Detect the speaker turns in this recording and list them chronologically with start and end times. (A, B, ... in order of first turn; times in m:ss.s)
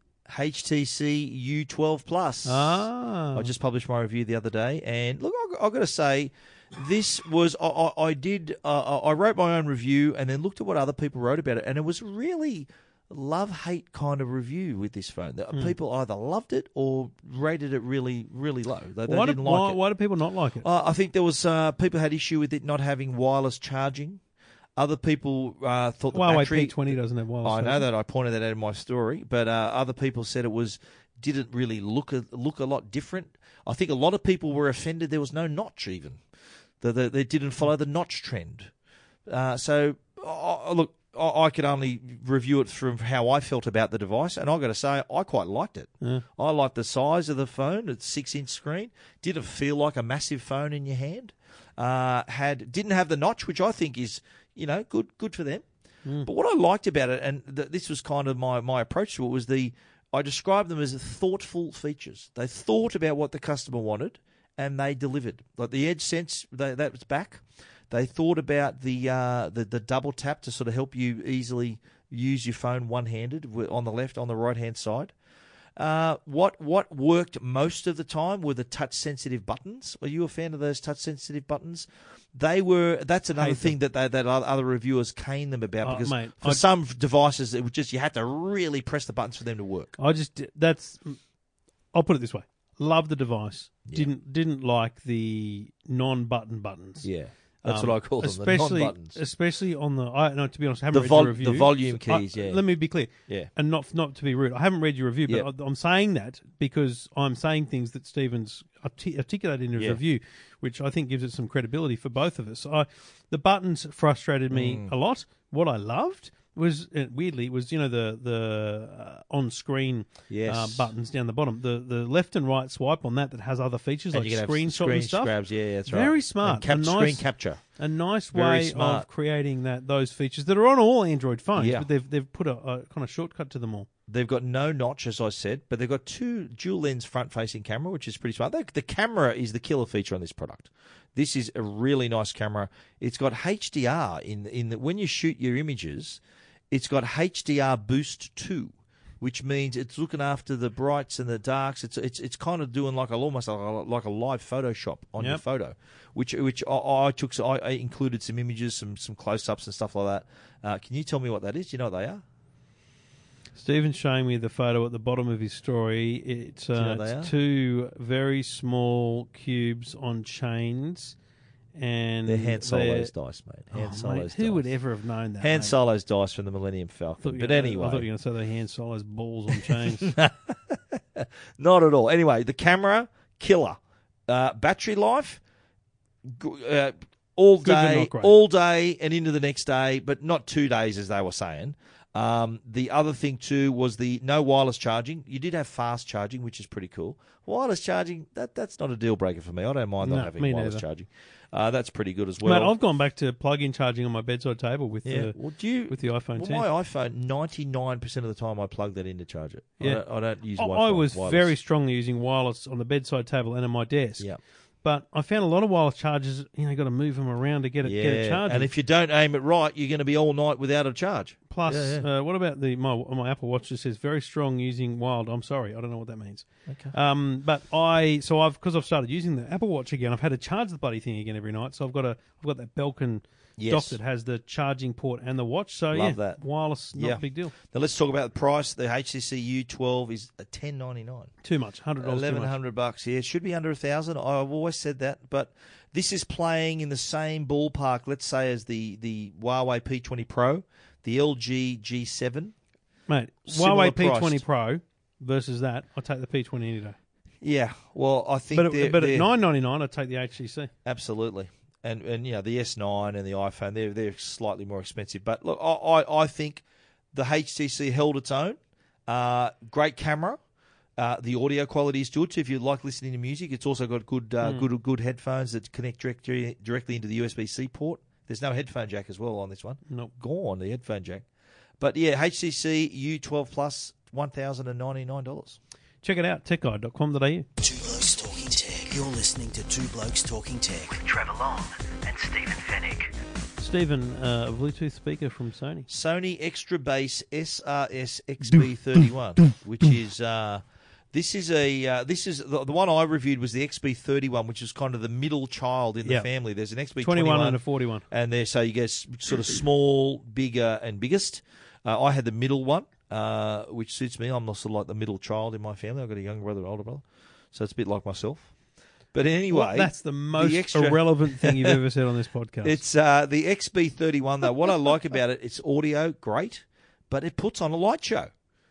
0:00.3-0:19.8 A
0:02.4-0:03.5 B
0:19.1-0:20.6 B
0:20.6-0:24.2 A
0:24.8-0:36.2 A
0:26.1-0:27.9 B
0:36.8-0:38.7 A
0:39.3-0:55.6 A
0:56.2-1:15.1 A
1:15.8-1:29.9 A
1:23.4-1:23.8 B
1:25.8-1:26.6 B
1:30.0-1:31.2 B
1:31.9-1:37.1 B
1:33.8-1:34.1 A
1:37.0-1:39.2 A
1:37.6-2:05.3 B
1:40.9-1:42.6 A
1:54.5-1:54.9 A
2:00.3-2:00.9 A
2:04.1-2:07.6 A
2:05.9-2:13.9 B
2:08.3-2:09.1 A
2:11.6-2:11.9 A
2:14.1-2:42.2 A
2:43.6-2:51.2 B
2:46.8-2:47.3 A
2:51.8-2:53.1 B
2:52.3-2:54.7 A
2:53.7-2:55.8 B
2:55.4-2:58.1 A
2:57.2-3:00.2 B
2:59.5-3:05.4 A
3:06.2-3:22.7 A
3:07.6-3:08.3 B
3:20.0-3:20.8 B
3:22.4-3:25.4 B
3:25.0-3:31.5 A
3:25.9-3:26.7 B
3:30.6-3:34.3 B
3:34.8-3:38.7 B
3:37.8-3:42.1 A
3:41.5-3:57.5 B
3:46.7-3:46.9 A
3:53.6-3:54.0 A
3:55.9-3:56.4 A
3:56.9-4:01.3 A
4:01.4-4:02.6 B
4:02.0-4:12.5 A
4:13.1-4:17.0 B
4:13.5-4:14.4 A
4:17.4-4:19.3 A
4:18.5-4:20.7 B
4:20.8-4:30.4 A
4:31.0-4:41.3 A
4:41.8-4:45.6 A
4:46.0-4:47.5 B
4:47.6-4:53.1 C
4:53.6-4:55.9 B
4:55.9-5:18.5 A
5:07.0-5:08.1 B
5:19.1-5:21.8 A
5:19.5-5:22.8 B
5:22.6-5:28.3 A